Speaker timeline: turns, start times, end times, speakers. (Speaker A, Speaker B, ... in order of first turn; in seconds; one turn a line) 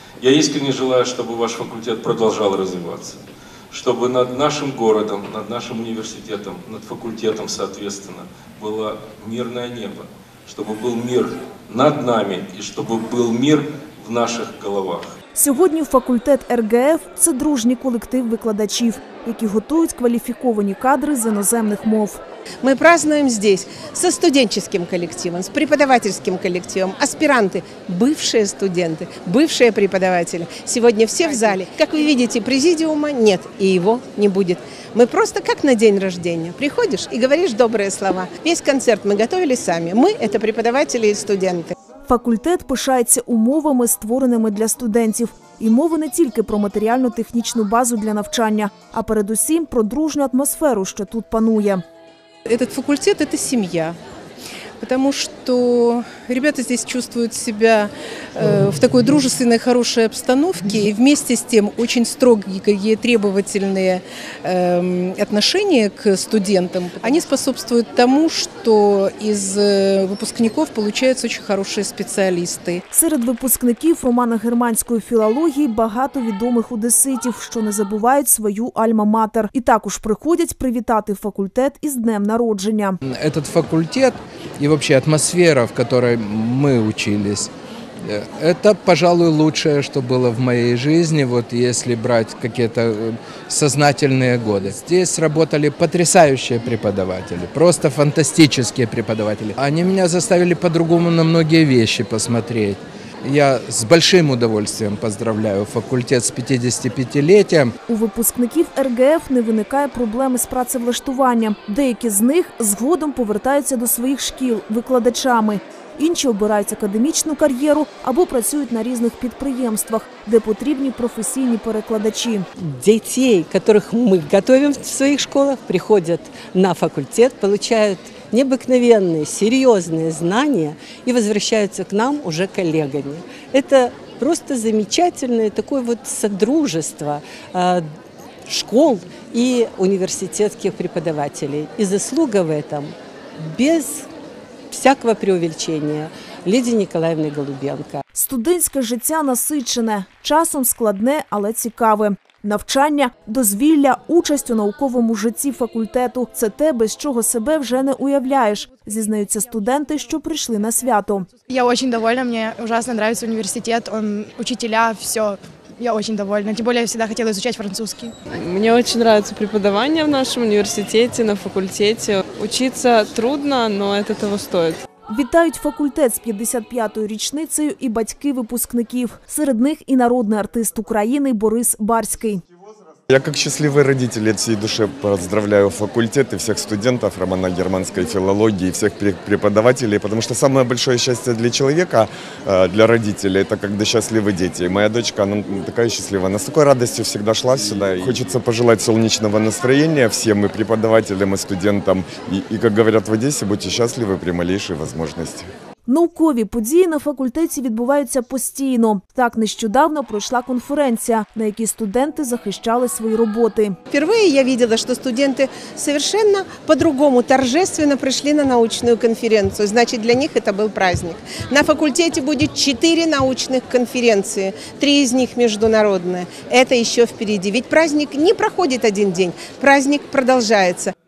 Speaker A: 0.2-3.2
Speaker A: 3.7-15.1
Speaker B: 15.3-22.2
Speaker C: 22.6-41.7
Speaker B: 42.0-51.8
Speaker D: 52.5-54.0
Speaker D: 54.8-72.8
Speaker B: 72.9-83.0
Speaker E: 83.1-87.5
Speaker E: 88.1-107.7
Speaker B: 107.9-122.5
Speaker F: 122.6-137.9
Speaker F: 138.4-144.1
Speaker F: 144.7-148.0
Speaker B: 148.2-161.3
Speaker G: 161.5-168.1
Speaker H: 168.3-174.8
Speaker B: 175.1-182.4
Speaker I: 183.1-205.5
Speaker B: 205.8-213.8
Speaker C: 213.9-230.9